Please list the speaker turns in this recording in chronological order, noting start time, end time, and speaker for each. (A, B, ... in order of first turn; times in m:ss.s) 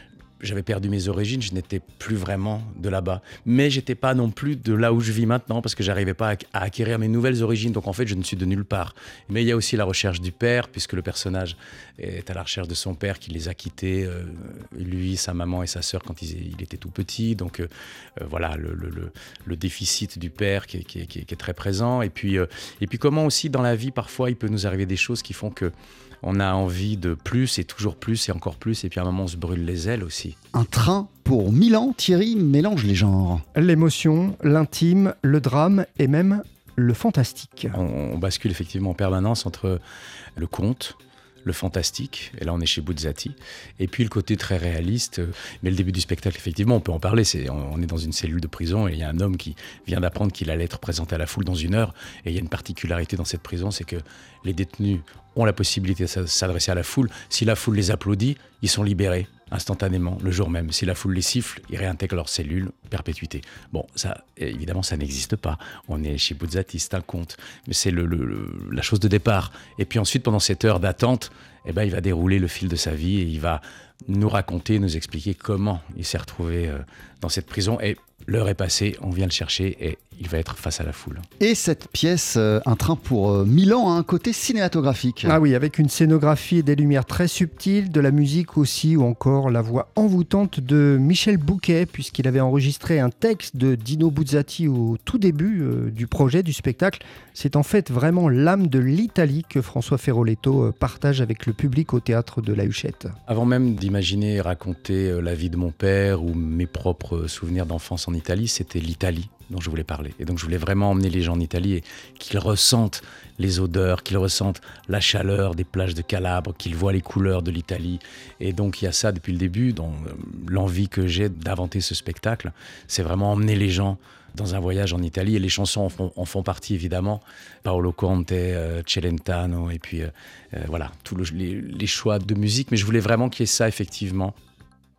0:00.4-0:30.4 A
0:30.5-0:33.4 B
0:33.6-0:37.8 C
0:37.7-0:39.8 A
0:40.4-1:21.3 A
1:21.4-1:25.4 B
1:25.2-1:43.1 C
1:43.3-2:14.3 A